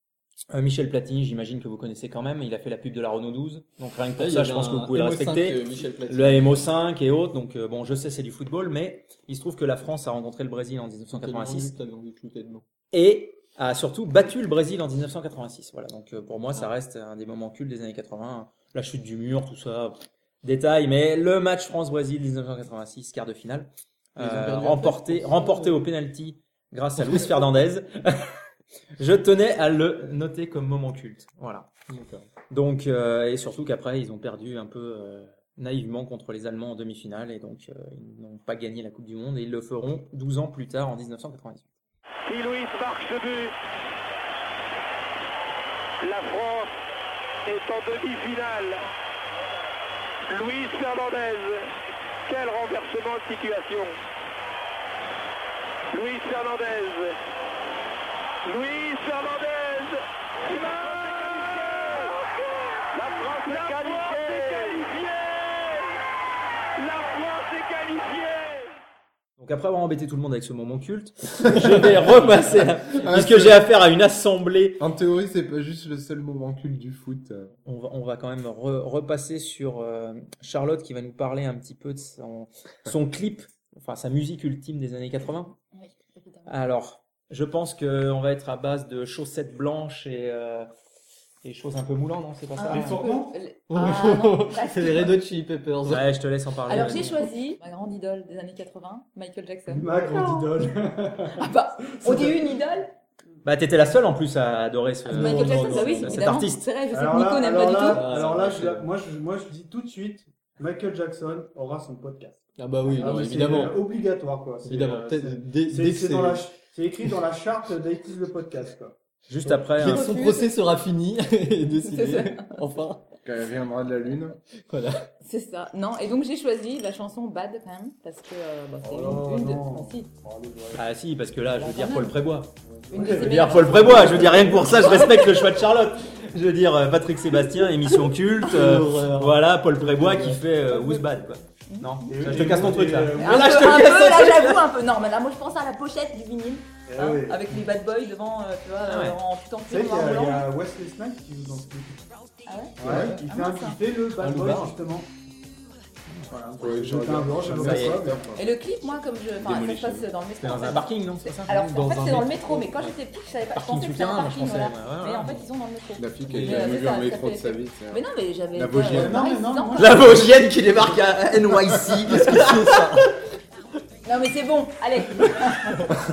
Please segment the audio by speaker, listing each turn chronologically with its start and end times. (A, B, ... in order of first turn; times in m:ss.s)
0:00.5-0:11.8 A
0:04.2-0:06.7 B
0:11.1-0:12.6 B
0:12.9-0:28.4 A
0:24.2-0:25.9 B
0:27.0-0:27.3 B
0:29.0-0:31.7 A
0:31.9-0:32.2 B
0:32.5-0:41.7 A
0:42.3-0:43.5 C
0:46.0-0:46.7 C
0:47.4-0:48.8 C
0:50.3-0:51.7 C
0:52.3-0:54.0 C
0:55.9-0:57.2 C
0:58.4-1:02.3 C
1:02.9-1:05.9 C
1:06.8-1:08.7 C
1:09.4-1:14.8 A
1:12.9-1:13.6 D
1:14.8-1:17.5 D
1:17.7-1:25.6 A
1:25.7-1:26.6 E
1:26.5-1:30.7 A
1:31.4-1:33.0 A
1:32.6-1:35.2 E
1:32.7-1:33.4 F
1:33.7-1:36.1 B
1:35.9-1:37.3 A
1:36.7-1:40.5 E
1:39.7-1:42.6 F
1:41.4-1:42.9 E
1:43.4-1:46.6 A
1:45.1-1:46.4 B
1:45.1-1:48.2 E
1:46.9-1:59.7 F
1:47.9-1:48.9 B
1:52.6-1:53.9 B
1:54.6-1:56.5 B
1:59.3-2:00.1 A
1:59.8-2:03.0 B
1:59.8-2:00.5 E
2:01.8-2:02.6 E
2:03.2-2:04.4 D
2:04.7-2:05.1 B
2:05.2-2:10.1 E
2:08.8-2:10.8 F
2:10.8-2:24.7 A
2:11.6-2:12.2 E
2:12.7-2:14.7 F
2:12.9-2:15.5 E
2:18.4-2:20.4 B
2:20.7-2:21.1 E
2:21.7-2:22.1 E
2:22.0-2:23.8 F
2:23.2-2:30.5 E
2:26.9-2:27.6 F
2:28.9-2:29.2 A
2:29.7-2:32.0 F
2:32.4-2:33.8 E
2:32.8-2:35.1 F
2:34.2-2:34.8 B
2:36.3-2:38.3 F
2:36.6-2:38.5 D
2:37.5-2:38.1 A
2:38.4-2:50.0 E
2:39.4-2:40.1 D
2:40.4-2:42.1 A
2:41.5-2:43.0 B
2:43.6-2:45.4 A
2:46.0-2:49.3 D
2:46.3-2:46.7 B
2:48.9-2:50.3 F
2:49.8-2:53.0 A
2:52.1-2:53.2 B
2:54.0-2:55.9 E